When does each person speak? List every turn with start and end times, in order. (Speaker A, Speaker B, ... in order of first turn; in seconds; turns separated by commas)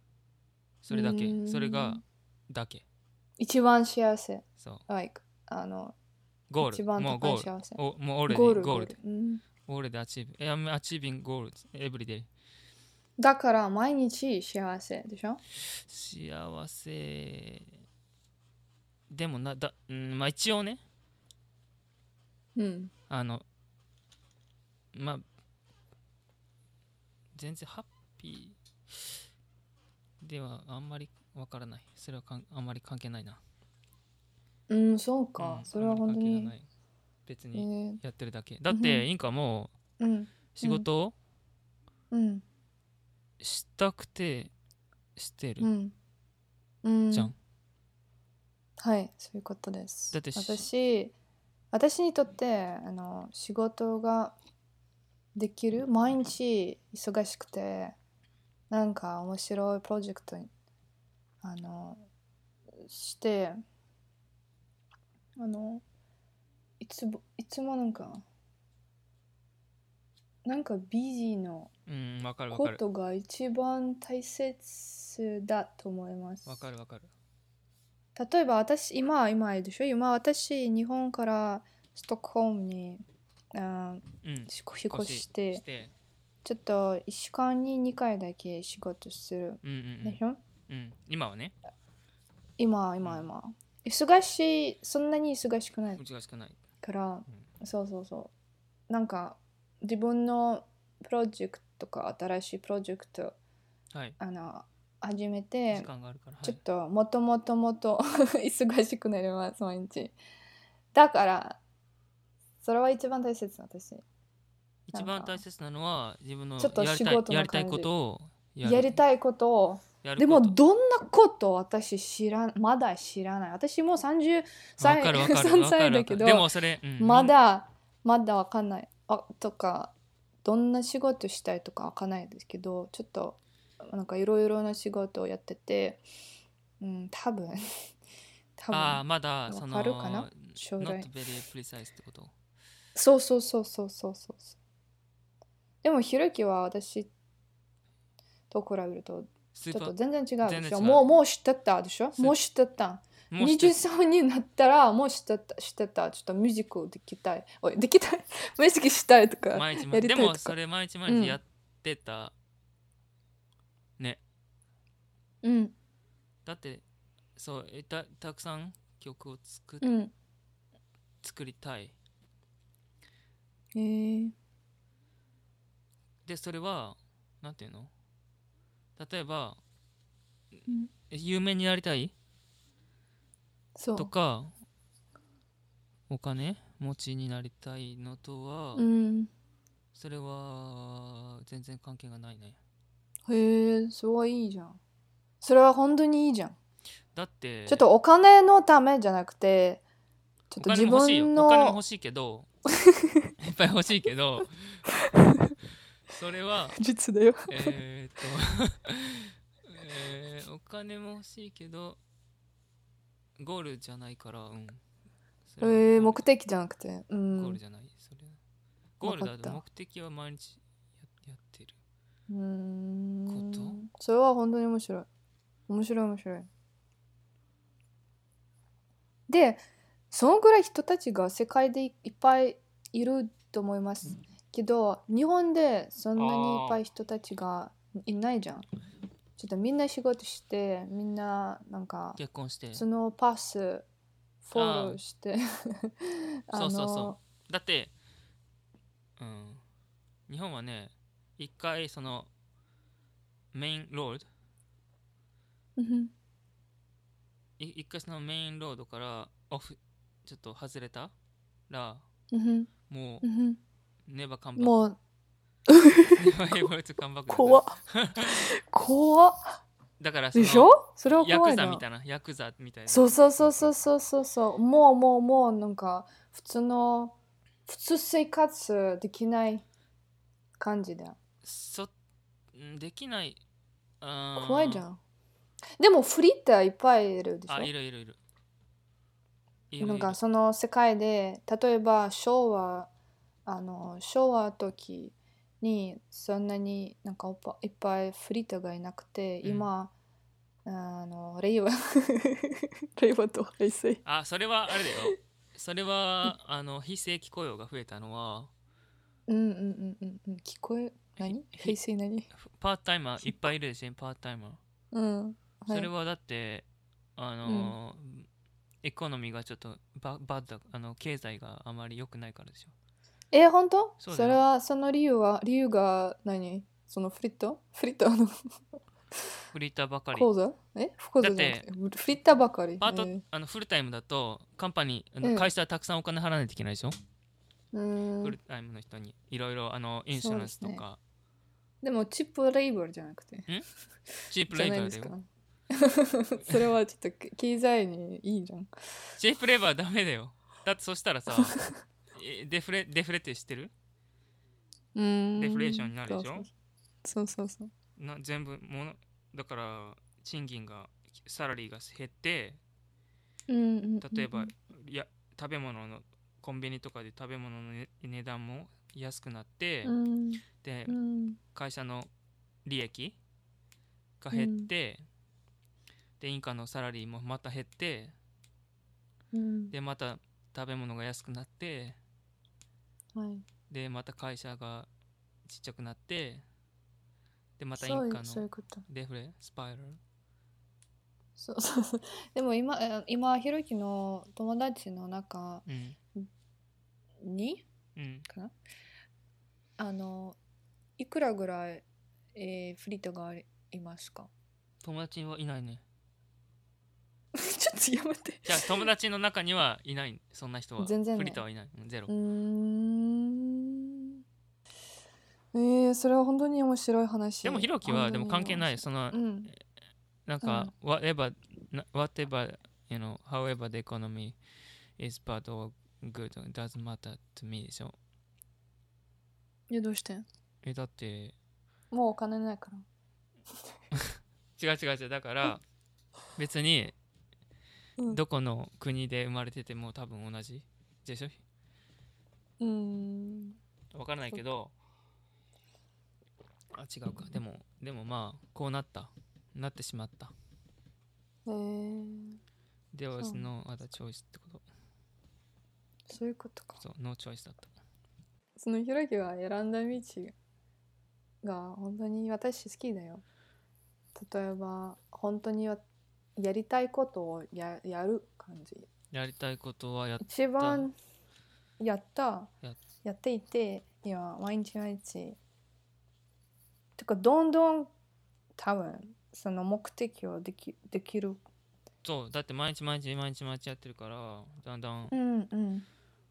Speaker A: 0.8-2.8, Speaker B: 0.9-2.0, Speaker B: 3.4-5.9, Speaker A: 6.5-8.9, Speaker B: 6.6-9.4, Speaker A: 9.7-12.3, Speaker B: 13.2-15.4, Speaker A: 15.7-17.7, Speaker A: 19.1-20.8, Speaker B: 22.6-22.9, Speaker A: 23.1-23.4, Speaker A: 24.9-25.2, Speaker A: 27.3-29.2, Speaker A: 30.2-33.4, Speaker B: 34.7-36.5, Speaker A: 35.4-36.6, Speaker A: 37.2-39.7, Speaker B: 37.5-38.0, Speaker B: 38.7-39.0, Speaker B: 40.0-40.8, Speaker A: 40.5-41.1, Speaker B: 42.1-42.4, Speaker A: 43.4-44.5, Speaker A: 45.1-45.7, Speaker B: 45.6-45.9, Speaker B: 46.8-47.3, Speaker B: 48.8-51.1, Speaker A: 50.1-50.6, Speaker B: 51.7-54.4, Speaker B: 55.3-57.9, Speaker B: 58.7-60.5, Speaker B: 61.4-62.0, Speaker B: 62.8-63.6, Speaker B: 65.4-65.8, Speaker B: 66.8-68.2, Speaker B: 70.4-71.7, Speaker A: 71.9-72.8, Speaker B: 72.5-76.7, Speaker A: 76.5-77.1, Speaker B: 78.2-83.0, Speaker B: 83.5-85.6, Speaker A: 84.2-85.9, Speaker B: 86.4-90.4, Speaker A: 89.6-91.5, Speaker B: 92.6-96.0, Speaker A: 93.0-93.3, Speaker A: 95.9-96.6, Speaker B: 96.8-98.3, Speaker B: 98.9-103.3, Speaker A: 103.9-104.2, Speaker B: 104.2-105.9, Speaker A: 105.7-106.6, Speaker B: 106.4-110.1, Speaker B: 110.9-111.6, Speaker B: 112.6-114.0, Speaker A: 114.9-119.0, Speaker B: 114.9-115.4, Speaker B: 116.6-117.9, Speaker B: 118.6-136.0, Speaker A: 120.0-120.6, Speaker A: 124.8-127.3, Speaker B: 136.8-137.6, Speaker B: 138.6-141.1, Speaker A: 138.7-142.3, Speaker B: 142.9-144.6, Speaker B: 145.8-147.1, Speaker B: 148.5-160.5, Speaker A: 149.5-151.1, Speaker A: 153.3-153.8, Speaker A: 159.5-162.3, Speaker B: 161.1-161.4, Speaker B: 165.4-165.7, Speaker A: 166.4-166.8, Speaker A: 167.3-169.9, Speaker B: 169.8-170.1, Speaker A: 171.2-171.9, Speaker B: 173.7-174.3, Speaker A: 176.2-177.9, Speaker A: 179.0-179.6, Speaker A: 181.1-182.1, Speaker B: 183.8-184.1, Speaker A: 183.9-184.5, Speaker A: 186.1-188.8, Speaker B: 188.7-189.3, Speaker A: 189.9-192.6, Speaker B: 193.2-194.8, Speaker B: 195.4-196.6, Speaker A: 197.1-197.8, Speaker B: 197.7-199.8, Speaker B: 200.5-201.8, Speaker A: 200.6-202.5, Speaker B: 202.9-203.3, Speaker A: 203.4-204.8, Speaker B: 205.2-205.5, Speaker A: 206.1-206.8, Speaker B: 206.8-207.7, Speaker A: 207.5-212.0, Speaker A: 213.4-214.8, Speaker A: 215.4-216.2, Speaker B: 215.6-217.6, Speaker A: 217.3-218.4, Speaker A: 219.0-221.8, Speaker B: 219.0-219.6, Speaker B: 222.3-225.1, Speaker A: 223.3-223.8, Speaker B: 225.7-226.5, Speaker B: 229.3-238.7, Speaker A: 236.2-236.8, Speaker B: 239.4-242.2, Speaker A: 242.2-242.8, Speaker B: 242.7-243.8, Speaker B: 244.4-247.2, Speaker A: 244.5-245.0, Speaker A: 246.5-247.9, Speaker A: 249.2-249.6, Speaker A: 250.3-252.3, Speaker A: 253.5-254.3, Speaker B: 255.8-256.1, Speaker A: 257.6-261.1, Speaker A: 261.7-262.0, Speaker B: 262.3-262.7, Speaker A: 262.9-263.2, Speaker B: 263.2-263.6, Speaker A: 264.1-264.8, Speaker B: 264.6-265.0, Speaker B: 265.7-266.3, Speaker A: 266.2-268.5, Speaker B: 267.3-269.6, Speaker A: 270.0-273.7, Speaker B: 270.3-271.8, Speaker B: 272.9-277.1, Speaker B: 277.7-279.6, Speaker B: 280.6-281.2, Speaker A: 281.4-281.9, Speaker A: 282.5-283.4, Speaker A: 284.0-284.9, Speaker B: 284.4-285.0, Speaker B: 285.8-287.7, Speaker A: 287.5-288.2, Speaker A: 289.7-290.2, Speaker B: 289.8-292.9, Speaker B: 293.4-299.9, Speaker A: 299.4-299.7, Speaker B: 300.6-304.0, Speaker A: 304.0-308.5, Speaker B: 304.8-305.1, Speaker B: 309.3-312.3, Speaker A: 311.2-311.8, Speaker A: 312.4-314.6, Speaker B: 314.9-315.9, Speaker A: 315.7-316.6, Speaker A: 317.2-318.3, Speaker B: 317.4-317.7, Speaker A: 318.8-322.7, Speaker B: 323.3-328.3, Speaker A: 324.0-324.4, Speaker A: 329.5-330.3, Speaker B: 330.1-333.2, Speaker A: 331.2-331.6, Speaker A: 332.8-336.9, Speaker B: 335.2-335.5, Speaker B: 337.7-338.4, Speaker A: 338.2-341.0, Speaker B: 340.1-340.8, Speaker B: 341.8-343.5, Speaker A: 344.3-345.1, Speaker B: 344.5-348.7, Speaker A: 349.2-351.6, Speaker B: 351.4-351.7, Speaker A: 352.1-353.7, Speaker B: 354.9-356.5, Speaker A: 355.4-356.4, Speaker B: 357.0-357.7, Speaker A: 358.0-362.6, Speaker B: 363.5-364.5, Speaker A: 364.0-369.9, Speaker B: 369.8-371.4, Speaker A: 370.6-371.0, Speaker A: 371.5-372.1, Speaker A: 372.6-373.1, Speaker A: 374.2-375.0, Speaker B: 374.3-374.7, Speaker A: 376.2-378.1, Speaker B: 379.3-379.7, Speaker A: 379.7-382.0, Speaker B: 383.1-383.4, Speaker A: 383.7-384.9, Speaker A: 385.4-386.4, Speaker A: 387.6-390.0, Speaker B: 387.8-388.8, Speaker B: 391.4-395.6, Speaker A: 395.6-396.0, Speaker B: 397.2-397.6, Speaker A: 397.9-398.3, Speaker B: 398.3-398.5, Speaker B: 399.8-400.4, Speaker B: 401.0-401.8, Speaker B: 402.4-404.3, Speaker A: 404.8-405.8, Speaker B: 407.3-408.8, Speaker A: 408.4-412.1, Speaker B: 410.8-411.4, Speaker B: 412.1-414.1, Speaker B: 415.5-419.5, Speaker A: 417.4-419.2, Speaker A: 420.2-424.4, Speaker B: 420.4-420.7, Speaker A: 425.0-427.9, Speaker B: 429.7-430.2, Speaker A: 430.6-431.4, Speaker B: 431.9-432.8, Speaker A: 433.9-435.6, Speaker A: 436.4-436.9, Speaker A: 438.1-441.4, Speaker B: 442.6-443.6, Speaker A: 443.9-444.7, Speaker A: 446.7-450.3, Speaker B: 451.4-452.4, Speaker A: 452.9-454.6, Speaker B: 453.2-453.5, Speaker B: 456.1-456.8, Speaker A: 456.8-457.7, Speaker B: 458.6-460.3, Speaker B: 461.4-463.2, Speaker B: 464.1-465.8, Speaker B: 466.4-468.9, Speaker A: 469.1-470.9, Speaker B: 470.2-470.9, Speaker B: 471.8-472.5, Speaker B: 473.0-475.4, Speaker B: 477.0-477.9, Speaker B: 478.6-481.4, Speaker A: 482.0-485.1, Speaker B: 485.1-485.9